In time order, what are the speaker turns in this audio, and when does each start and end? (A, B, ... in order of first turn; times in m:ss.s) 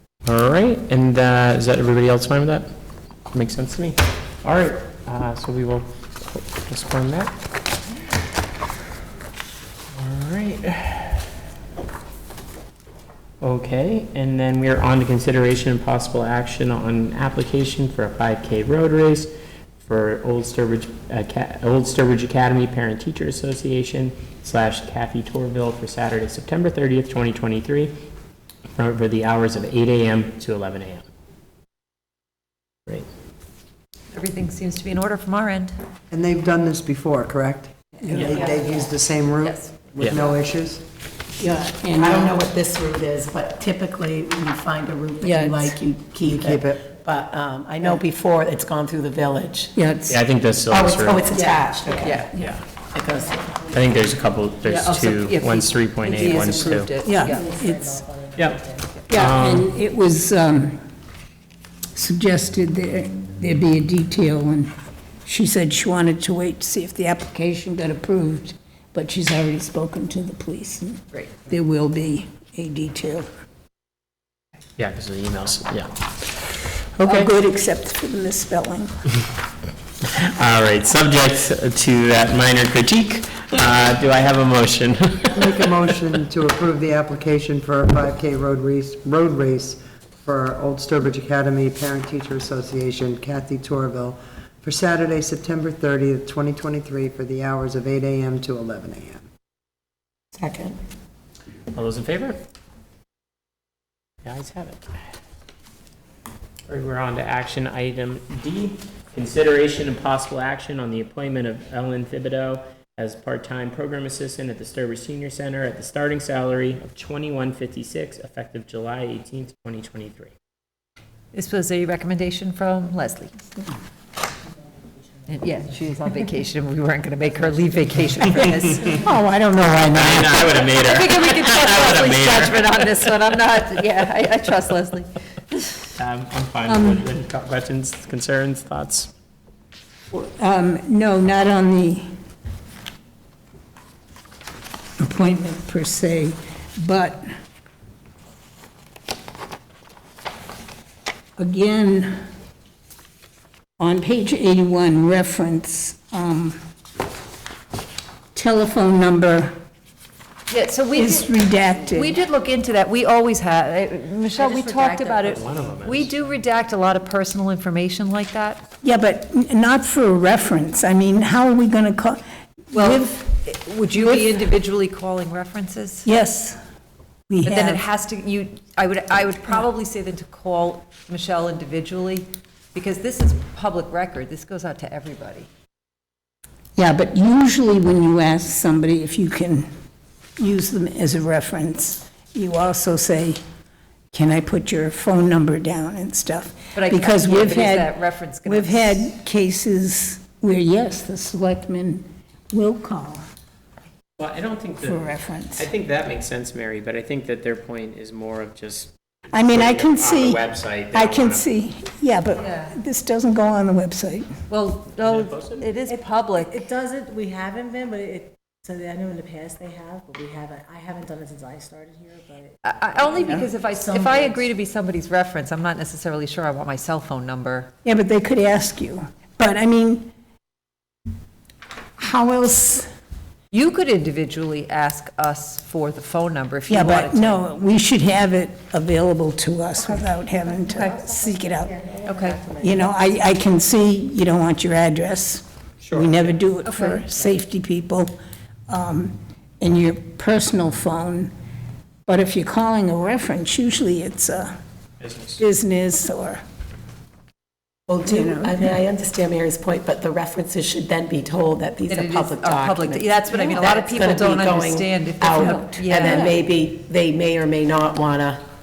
0:00.2-0:02.7 A
0:03.3-0:07.3 A
0:09.9-0:11.3 A
0:13.4-0:27.9 A
0:28.8-0:31.0 A
0:34.1-0:35.7 B
0:36.1-0:40.8 C
0:39.4-0:39.7 B
0:40.0-0:40.3 A
0:41.4-0:42.3 D
0:41.9-0:49.7 E
0:45.2-0:45.8 D
0:46.2-0:46.8 C
0:49.7-0:50.2 D
0:50.1-0:51.3 A
0:50.7-0:53.7 E
0:52.0-0:52.3 B
0:52.2-0:52.6 A
0:53.7-0:56.9 A
0:54.6-0:57.4 B
0:57.0-0:58.0 D
0:57.2-0:58.9 F
0:58.4-0:59.7 A
0:59.1-1:00.8 D
1:01.9-1:04.7 D
1:05.2-1:13.2 D
1:14.8-1:17.3 A
1:17.0-1:18.9 D
1:20.1-1:25.7 A
1:25.3-1:39.2 C
1:40.3-1:40.8 E
1:41.7-1:42.4 A
1:44.2-1:44.9 A
1:46.7-2:00.3 A
2:01.3-2:03.3 B
2:05.3-2:09.0 B
2:09.0-2:10.6 D
2:09.9-2:12.8 A
2:10.7-2:15.8 B
2:16.0-2:19.1 A
2:16.7-2:17.1 D
2:20.1-2:22.1 D
2:25.0-2:27.2 D
2:31.4-2:32.1 D
2:33.8-2:36.6 D
2:38.3-2:39.5 D
2:40.5-2:48.6 B
2:40.9-2:42.2 D
2:45.2-2:46.1 A
2:48.8-2:54.3 D
2:52.7-2:56.0 B
2:56.0-2:56.6 D
2:57.3-2:57.8 D
2:57.4-3:05.5 B
3:06.8-3:09.7 D
3:10.4-3:13.4 D
3:14.1-3:17.9 D
3:16.7-3:19.0 B
3:18.4-3:23.2 D
3:24.2-3:31.5 A
3:24.8-3:25.7 D
3:29.3-3:34.3 D
3:34.5-3:36.6 B
3:35.0-3:35.6 A
3:35.9-3:44.4 F
3:42.6-3:47.7 B
3:47.8-3:50.1 D
3:52.0-3:52.8 D
3:53.5-3:57.4 B
3:56.7-4:01.8 D
4:01.0-4:02.8 F
4:02.0-4:02.4 B
4:02.6-4:08.1 D
4:05.8-4:06.3 A
4:06.6-4:07.0 B
4:08.7-4:11.3 D
4:12.0-4:14.5 D
4:15.0-4:15.4 A
4:15.4-4:16.4 D
4:17.9-4:28.4 E
4:18.1-4:18.6 D
4:21.9-4:26.3 B
4:25.3-4:26.3 D